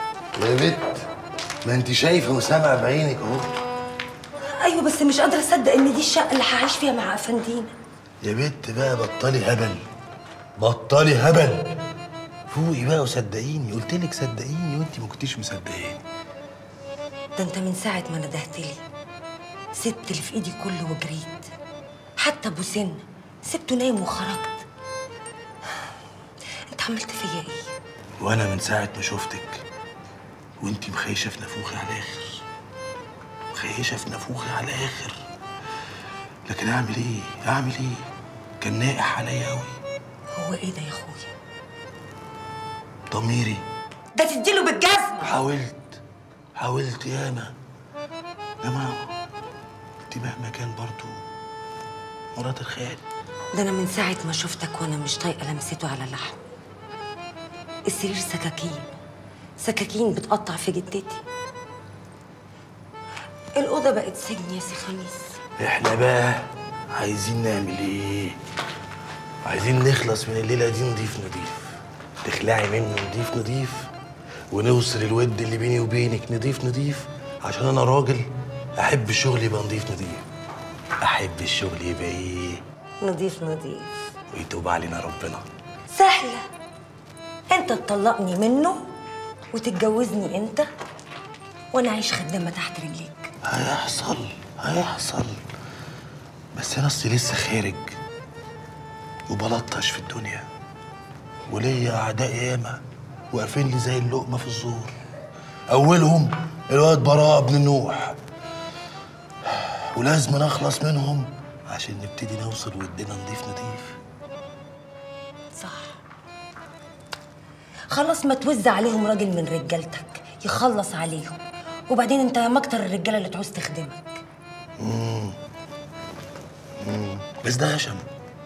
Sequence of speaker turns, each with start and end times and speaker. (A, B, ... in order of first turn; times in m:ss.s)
0:00.4-0:00.9 A
0:01.6-0:03.5 A
0:04.6-0:07.7 B
0:08.2-0:09.8 A
0:10.6-0:11.7 A
0:12.5-0:16.0 A
0:17.4-0:18.8 B
0:19.7-0:21.5 B
0:22.2-0:24.6 B
0:26.7-0:27.7 B
0:28.2-0:29.6 A
0:30.6-0:32.4 A
0:33.5-0:35.2 A
0:36.5-0:38.0 A
0:38.6-0:39.7 A
0:40.3-0:41.3 B
0:43.1-0:43.6 A
0:44.1-0:45.3 B
0:45.2-0:46.0 A
0:46.6-0:47.5 A
0:48.6-0:49.1 A
0:50.1-0:51.2 A
0:52.4-0:53.0 A
0:53.5-0:56.4 B
0:57.9-0:58.9 B
0:59.6-1:01.2 B
1:03.6-1:05.4 B
1:05.6-1:08.4 A
1:09.4-1:13.9 A
1:14.5-1:18.2 A
1:18.8-1:20.2 A
1:21.0-1:22.6 A
1:23.0-1:23.9 B
1:24.3-1:25.4 A
1:25.9-1:26.4 B
1:27.5-1:28.8 B
1:29.5-1:30.6 B
1:31.7-1:33.3 B
1:33.5-1:35.4 A
1:36.6-1:38.0 A
1:39.3-1:40.5 A
1:41.5-1:42.8 A
1:43.3-1:44.9 A
1:45.7-1:48.2 A
1:49.5-1:54.0 A
1:55.5-1:56.0 B
1:57.9-2:04.2 B
2:04.8-2:05.3 A
2:06.8-2:08.0 A